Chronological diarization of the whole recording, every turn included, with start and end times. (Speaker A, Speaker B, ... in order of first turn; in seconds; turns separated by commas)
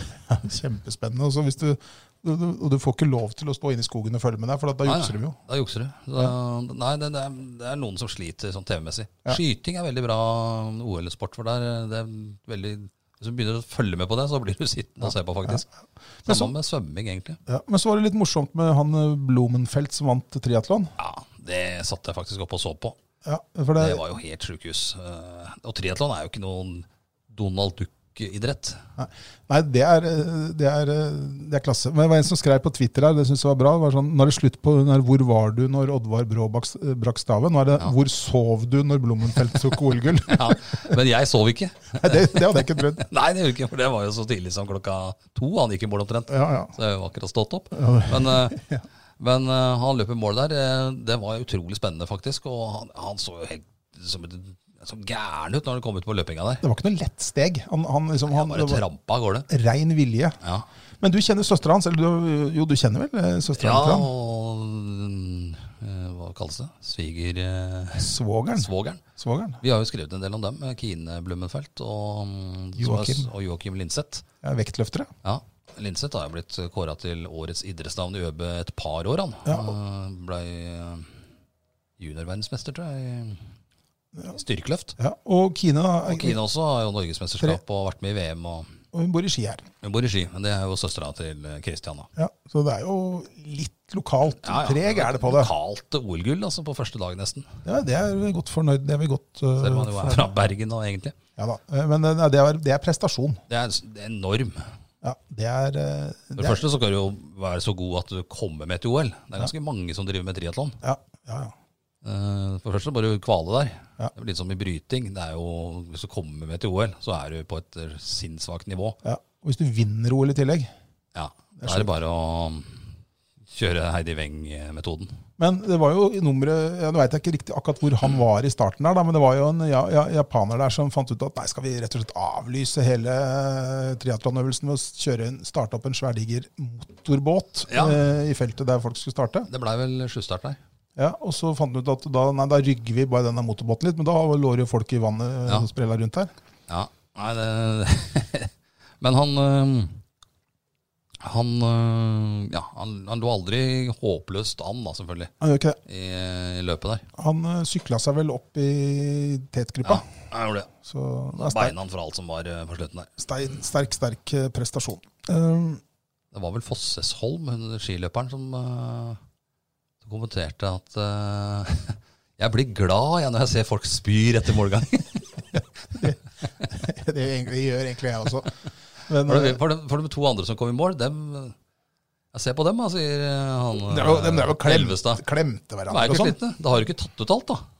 Speaker A: 0.3-5.4, Speaker B: 4.8-15.7, Speaker A: 15.0-15.7, Speaker B: 16.2-17.4, Speaker A: 16.2-16.5, Speaker A: 17.5-20.9, Speaker B: 21.0-22.9, Speaker A: 23.2-24.0, Speaker B: 23.8-28.8, Speaker A: 29.0-40.9, Speaker B: 40.3-48.6, Speaker A: 42.0-43.0, Speaker A: 46.3-46.7, Speaker A: 47.7-48.8, Speaker B: 49.2-56.6, Speaker A: 56.6-58.8, Speaker B: 58.3-59.5, Speaker A: 59.5-60.4, Speaker B: 60.4-60.7, Speaker A: 61.0-64.1, Speaker B: 63.6-69.0, Speaker A: 67.9-69.6, Speaker B: 69.6-74.2, Speaker A: 72.8-73.3, Speaker A: 74.4-75.1, Speaker B: 75.2-81.1, Speaker A: 79.5-79.7, Speaker B: 82.0-83.4, Speaker B: 84.3-84.9, Speaker A: 85.0-86.4, Speaker B: 86.0-88.7, Speaker A: 88.9-89.7, Speaker B: 89.8-92.1, Speaker A: 92.2-95.5, Speaker B: 94.4-97.5, Speaker A: 97.6-100.3, Speaker B: 99.6-101.1, Speaker A: 101.4-103.4, Speaker B: 103.5-104.7, Speaker A: 105.0-106.6, Speaker B: 106.3-110.8, Speaker A: 110.8-111.5, Speaker B: 112.0-119.0, Speaker A: 119.0-120.7, Speaker B: 121.1-122.9, Speaker A: 121.6-121.9, Speaker B: 123.5-125.1, Speaker A: 125.4-139.5, Speaker B: 137.7-138.0, Speaker B: 139.5-140.6, Speaker A: 140.9-146.3, Speaker B: 146.7-150.0, Speaker B: 151.2-155.3, Speaker A: 155.4-155.8, Speaker B: 155.8-157.1, Speaker A: 157.2-160.0, Speaker B: 159.8-160.7, Speaker A: 160.8-161.7, Speaker B: 161.4-163.1, Speaker A: 163.2-165.8, Speaker B: 166.3-169.2, Speaker B: 170.0-176.1, Speaker A: 176.7-178.5, Speaker A: 179.1-179.6, Speaker B: 179.2-181.5, Speaker B: 182.3-185.2, Speaker A: 183.8-186.4, Speaker B: 185.9-187.6